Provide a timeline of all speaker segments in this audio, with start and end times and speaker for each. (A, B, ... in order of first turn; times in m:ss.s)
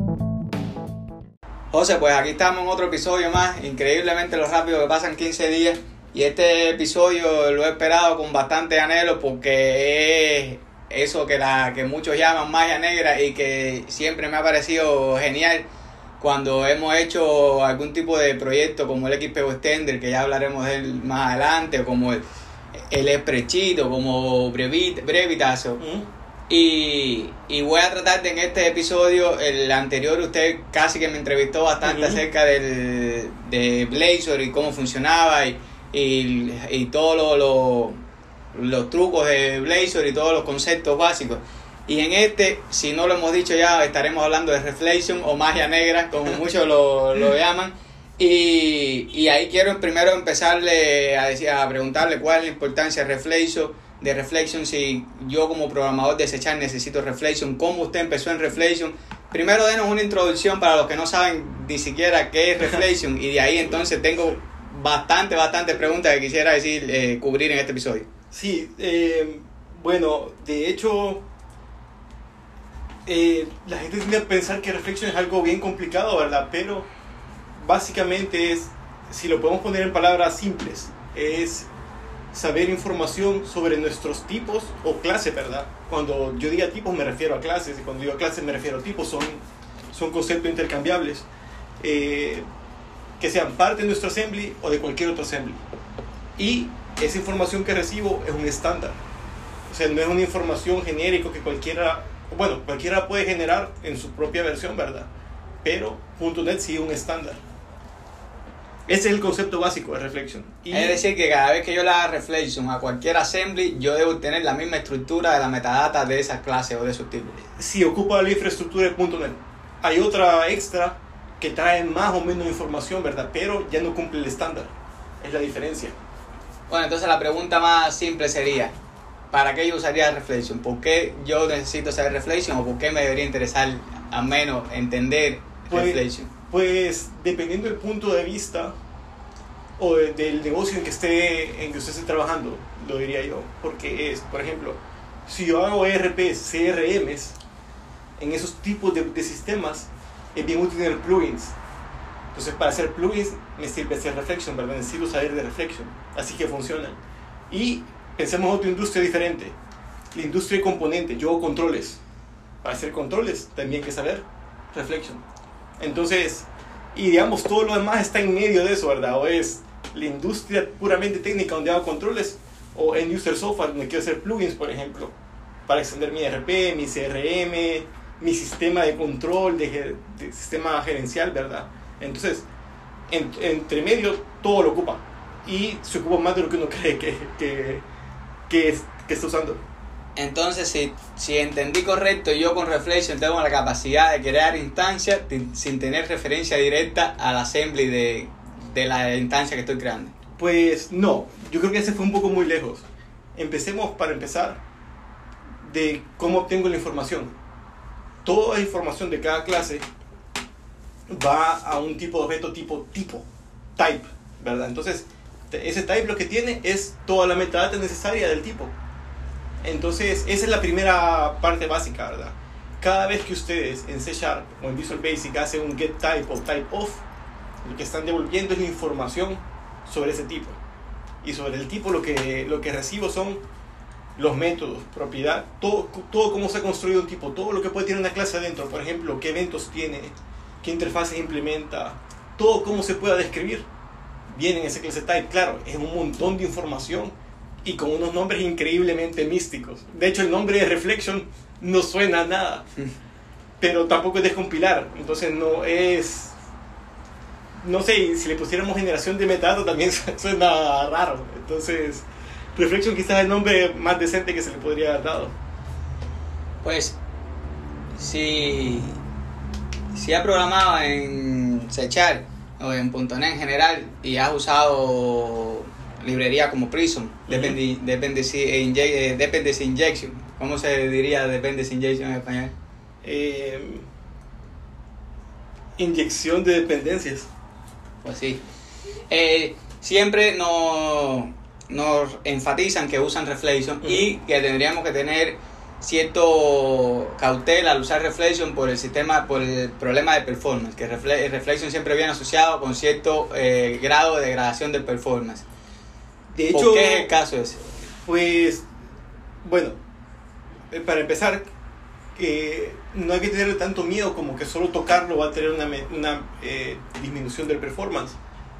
0:01.7-0:15.7 A
0:16.2-0:22.2 A
0:22.9-0:25.8 A
0:25.8-0:26.1 B
0:26.5-0:38.0 A
0:31.8-0:32.2 B
0:38.5-1:08.1 A
1:08.3-1:11.2 B
1:13.0-1:16.9 B
1:17.6-1:21.7 B
1:22.3-1:31.3 B
1:31.8-1:32.4 B
1:33.2-1:35.6 B
1:36.4-1:39.0 B
1:39.7-1:45.1 B
1:45.6-1:47.4 B
1:48.9-1:51.0 B
1:50.7-1:57.4 A
1:57.4-2:06.0 B
2:06.7-2:08.7 A
2:09.3-2:16.3 A
2:15.7-2:18.7 B
2:19.8-2:27.4 B
2:28.2-2:31.6 B
2:32.3-2:39.6 B
2:40.1-2:42.0 B
2:42.6-2:45.2 B
2:45.8-2:55.1 B
2:55.7-3:02.4 B
3:03.1-3:07.8 B
3:08.5-3:09.6 B
3:10.2-3:20.1 A
3:20.4-3:24.6 B
3:25.6-3:27.3 B
3:28.2-3:29.8 B
3:31.1-3:33.2 B
3:33.8-3:38.7 B
3:39.6-3:47.0 B
3:47.6-3:50.6 B
3:51.2-3:53.4 B
3:54.2-4:03.7 B
4:04.3-4:12.6 B
4:13.6-4:16.4 B
4:17.6-4:25.3 B
4:26.6-4:27.0 A
4:28.0-4:29.0 A
4:29.9-4:42.5 A
4:37.3-4:37.6 B
4:43.0-4:43.8 B
4:45.8-4:47.3 B
4:48.0-4:48.4 A
4:49.1-5:05.4 A
4:53.8-4:54.1 B
5:06.3-5:07.1 B
5:06.5-5:07.6 A
5:08.0-5:08.6 B
5:09.4-5:09.8 B
5:10.7-5:11.5 B
5:12.2-5:18.2 B